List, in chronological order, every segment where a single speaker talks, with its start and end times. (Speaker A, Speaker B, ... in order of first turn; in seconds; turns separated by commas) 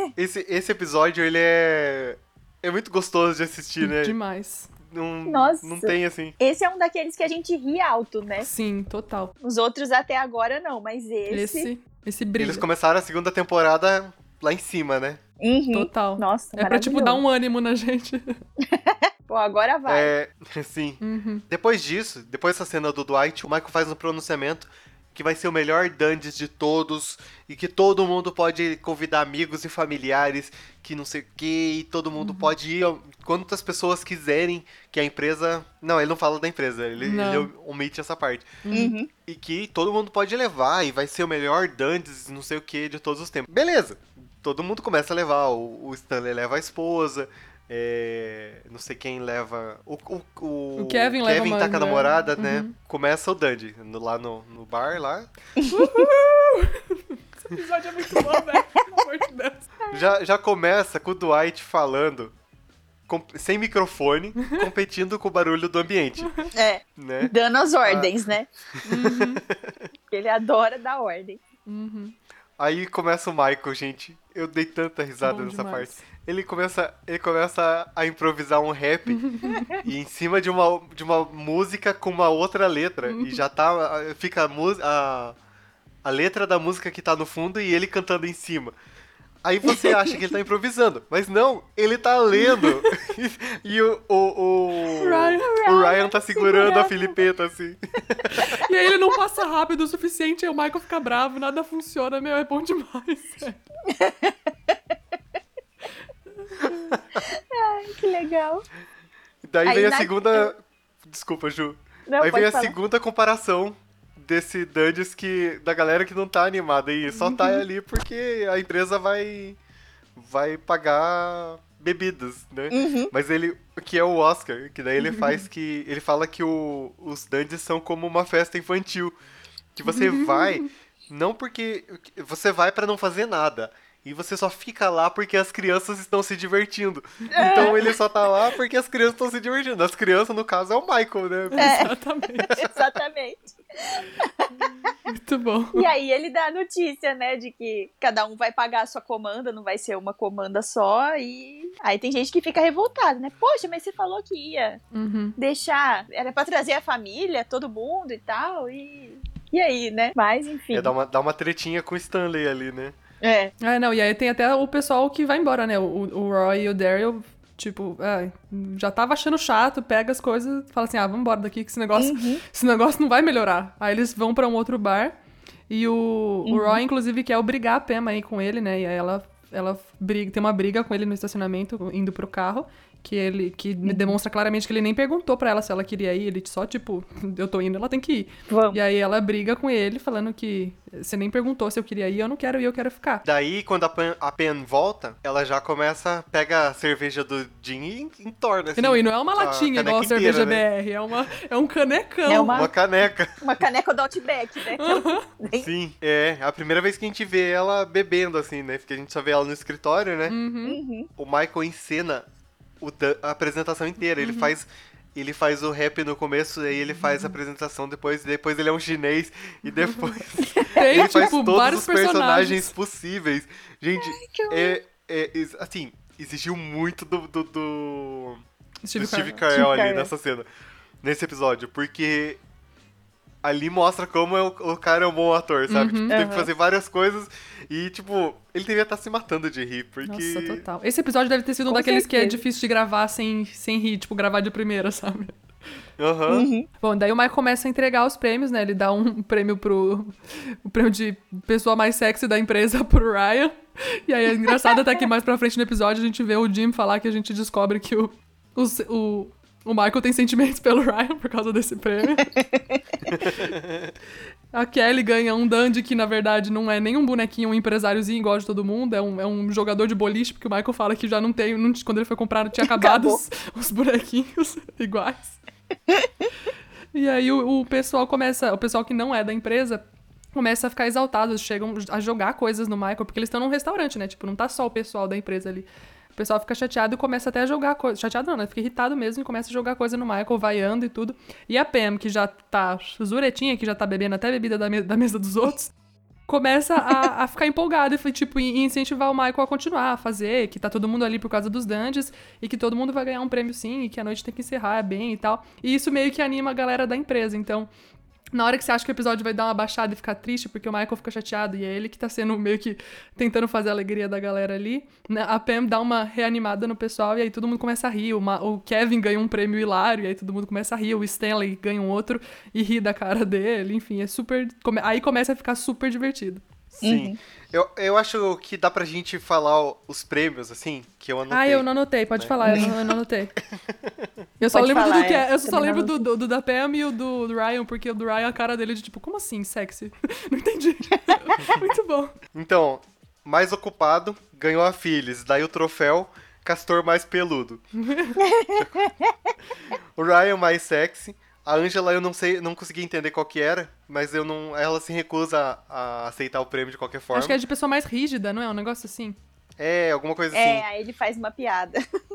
Speaker A: 0.1-4.2, Speaker B: 3.8-4.7, Speaker A: 4.8-6.3, Speaker C: 5.3-8.5, Speaker B: 8.4-9.3, Speaker C: 9.4-11.7, Speaker B: 11.3-12.6, Speaker A: 12.4-15.2, Speaker C: 15.4-17.2, Speaker B: 15.7-18.4, Speaker C: 18.6-20.1, Speaker A: 19.9-38.6, Speaker B: 21.0-21.4, Speaker B: 32.2-32.5, Speaker B: 37.0-37.5, Speaker B: 38.6-38.9, Speaker C: 38.7-39.1, Speaker A: 39.2-55.3, Speaker B: 50.8-52.7, Speaker B: 55.7-59.7, Speaker A: 59.9-62.3, Speaker A: 63.1-66.3, Speaker B: 66.2-66.5, Speaker C: 66.5-68.5, Speaker A: 67.0-67.3, Speaker A: 67.8-68.1, Speaker B: 68.8-69.4, Speaker A: 68.9-69.8, Speaker C: 70.1-71.4, Speaker B: 71.7-72.1, Speaker A: 72.6-85.4, Speaker B: 75.2-76.0, Speaker B: 79.2-79.8, Speaker B: 83.1-83.4, Speaker A: 86.0-88.7, Speaker A: 89.4-98.5, Speaker B: 92.4-92.9, Speaker B: 95.0-95.6, Speaker C: 95.4-97.1, Speaker B: 98.4-103.6, Speaker C: 103.9-104.3, Speaker A: 106.6-107.2, Speaker C: 107.3-108.6, Speaker A: 109.4-119.6, Speaker C: 109.6-110.5, Speaker C: 112.1-112.8, Speaker A: 120.1-129.1, Speaker C: 122.7-123.1, Speaker A: 129.8-141.9, Speaker B: 129.9-130.7, Speaker C: 137.3-138.0, Speaker B: 141.5-142.5, Speaker C: 141.6-141.9, Speaker C: 142.5-144.9, Speaker B: 145.0-145.9, Speaker C: 145.7-154.8, Speaker B: 154.9-155.4, Speaker C: 155.4-160.9, Speaker A: 160.7-163.0, Speaker C: 163.2-163.5, Speaker B: 163.6-175.1, Speaker C: 171.9-172.4, Speaker B: 175.7-193.2, Speaker C: 176.4-176.8, Speaker C: 183.8-184.1, Speaker C: 188.5-188.8, Speaker A: 193.2-200.6, Speaker B: 198.8-202.7, Speaker C: 202.3-202.7, Speaker A: 202.5-203.3, Speaker C: 203.4-205.7, Speaker B: 204.8-205.3, Speaker A: 205.5-210.4, Speaker B: 210.3-210.8, Speaker C: 210.7-211.1, Speaker A: 211.2-212.2, Speaker A: 212.8-228.4, Speaker B: 214.2-214.5, Speaker B: 220.7-222.7, Speaker C: 220.7-221.2, Speaker C: 224.0-224.8, Speaker B: 228.8-229.4, Speaker A: 228.9-230.5, Speaker C: 229.5-230.1, Speaker A: 231.0-232.4, Speaker A: 233.4-240.6, Speaker B: 235.7-236.2, Speaker C: 236.1-236.5, Speaker B: 240.1-245.4, Speaker C: 241.7-242.4, Speaker A: 246.0-246.5, Speaker C: 246.3-246.7, Speaker B: 246.8-262.3, Speaker C: 262.4-262.8, Speaker A: 263.2-263.9, Speaker B: 263.2-263.5, Speaker B: 264.5-275.4, Speaker C: 272.6-273.2, Speaker B: 276.9-279.8, Speaker B: 280.3-295.7, Speaker B: 296.3-307.7, Speaker B: 308.3-326.4, Speaker A: 326.8-332.8, Speaker C: 326.8-327.2, Speaker B: 331.3-333.3, Speaker C: 332.4-332.7, Speaker A: 333.5-334.1, Speaker B: 334.4-342.2, Speaker C: 334.5-336.0, Speaker A: 342.3-347.6, Speaker B: 347.9-348.2, Speaker C: 348.2-349.1, Speaker A: 350.0-357.4, Speaker B: 357.1-359.2, Speaker A: 359.6-360.7, Speaker C: 360.3-361.8